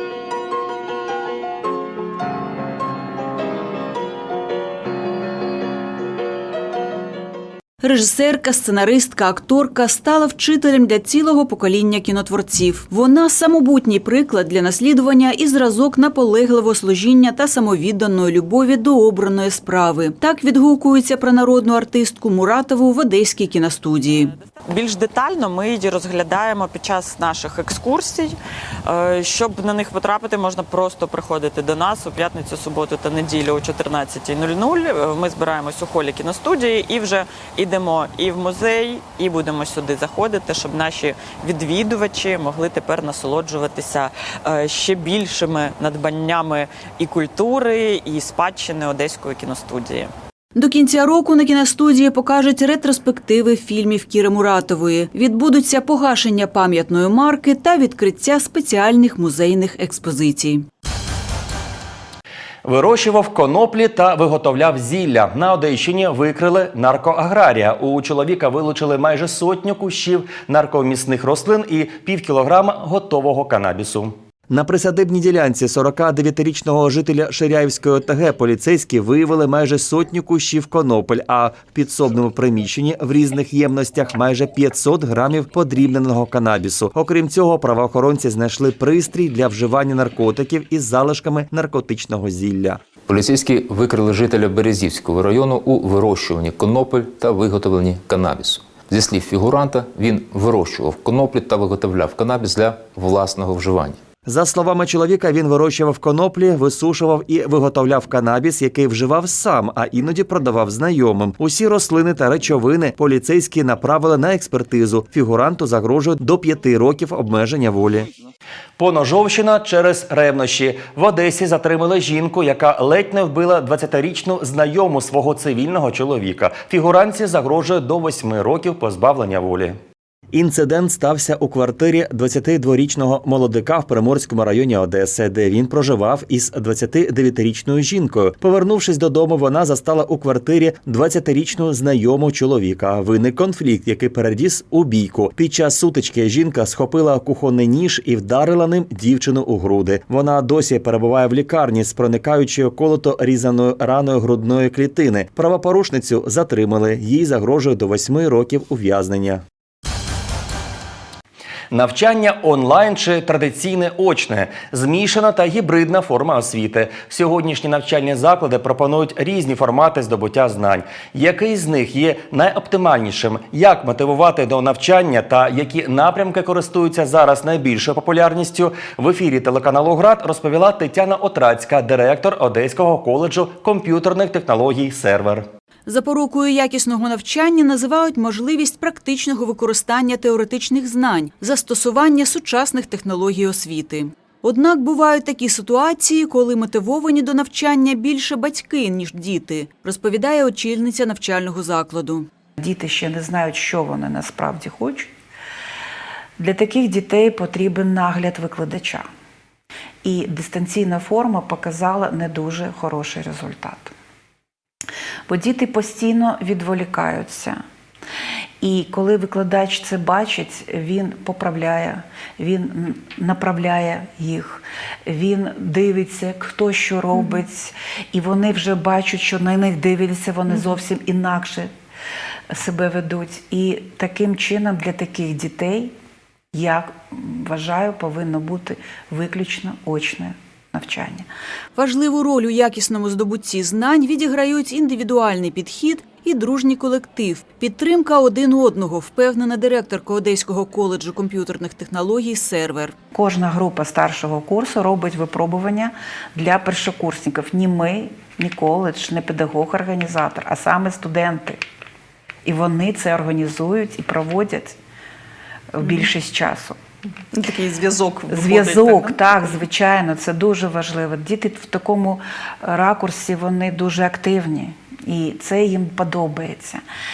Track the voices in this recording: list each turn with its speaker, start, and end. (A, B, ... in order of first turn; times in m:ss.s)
0:07.8-0:24.3 A
0:24.5-0:50.1 B
0:50.6-1:00.7 A
1:02.6-1:32.8 C
1:33.1-1:44.0 D
1:44.2-1:58.1 C
1:58.8-2:09.8 C
2:10.3-2:39.4 C
2:41.7-3:05.5 C
3:05.8-3:22.3 A
3:22.6-3:25.1 E
3:26.4-3:29.1 E
3:30.0-3:33.9 E
3:35.3-3:37.6 E
3:38.6-3:51.7 E
3:52.5-3:55.9 E
3:56.5-4:01.3 E
4:01.8-4:12.9 A
4:13.1-4:21.6 E
4:22.4-4:24.8 E
4:25.7-4:26.8 E
4:27.3-4:29.3 F
4:28.3-4:36.8 E